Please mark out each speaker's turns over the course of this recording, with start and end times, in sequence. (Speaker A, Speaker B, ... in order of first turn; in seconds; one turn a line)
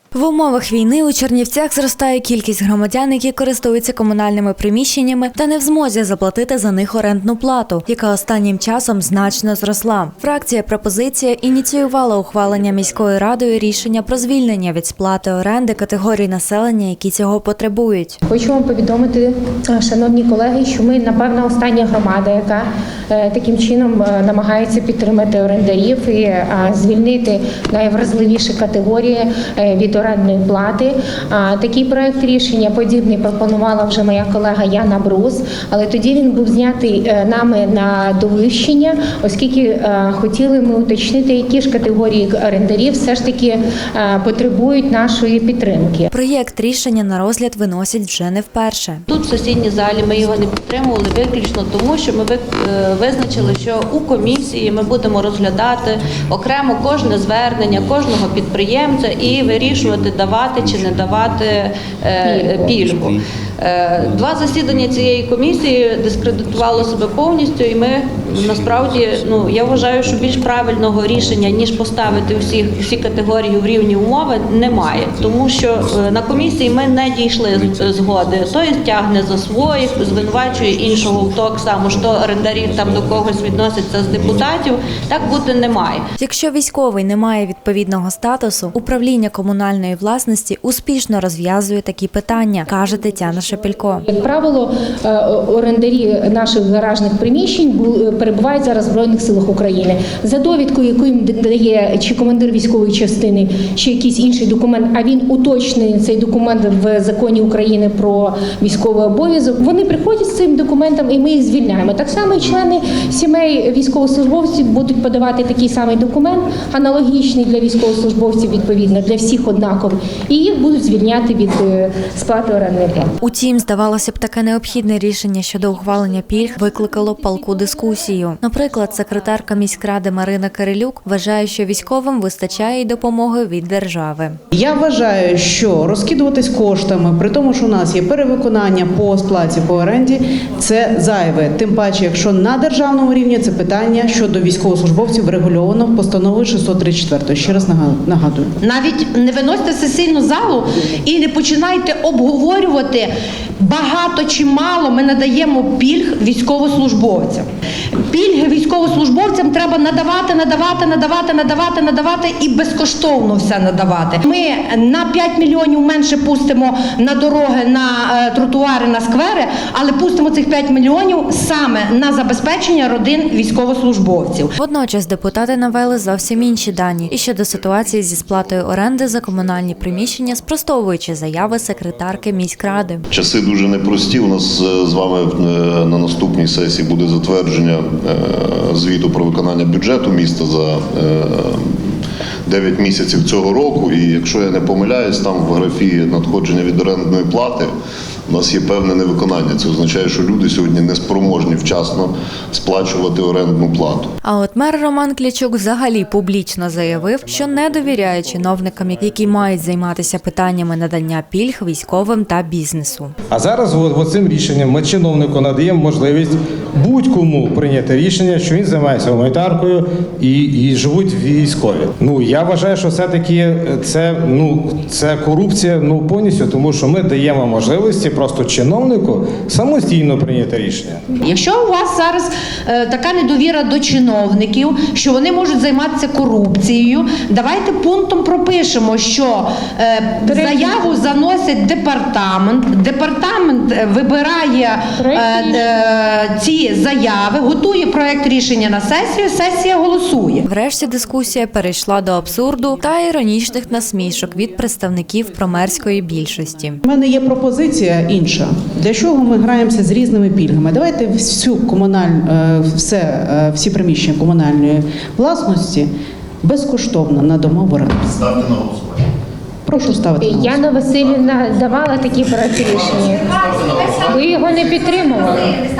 Speaker A: 0.1-18.2
Speaker B: 18.3-46.1
Speaker A: 46.1-49.0
Speaker C: 49.1-86.0
Speaker A: 86.2-94.0
Speaker B: 94.1-123.1
Speaker A: 123.2-134.4
Speaker D: 134.5-148.5
Speaker E: 148.6-174.5
Speaker A: 174.6-183.0
Speaker F: 176.2-180.3
Speaker F: 183.1-191.8
Speaker F: 192.5-197.7
Speaker F: 198.3-204.1
Speaker A: 204.2-213.1
Speaker G: 213.3-231.0
Speaker E: 231.2-250.4
Speaker B: 240.2-241.0
Speaker B: 245.0-245.6
Speaker A: 250.5-256.8
Speaker D: 256.9-265.9
Speaker D: 266.4-268.5
Speaker D: 269.7-270.6
Speaker B: 269.7-273.4
Speaker B: 273.9-275.6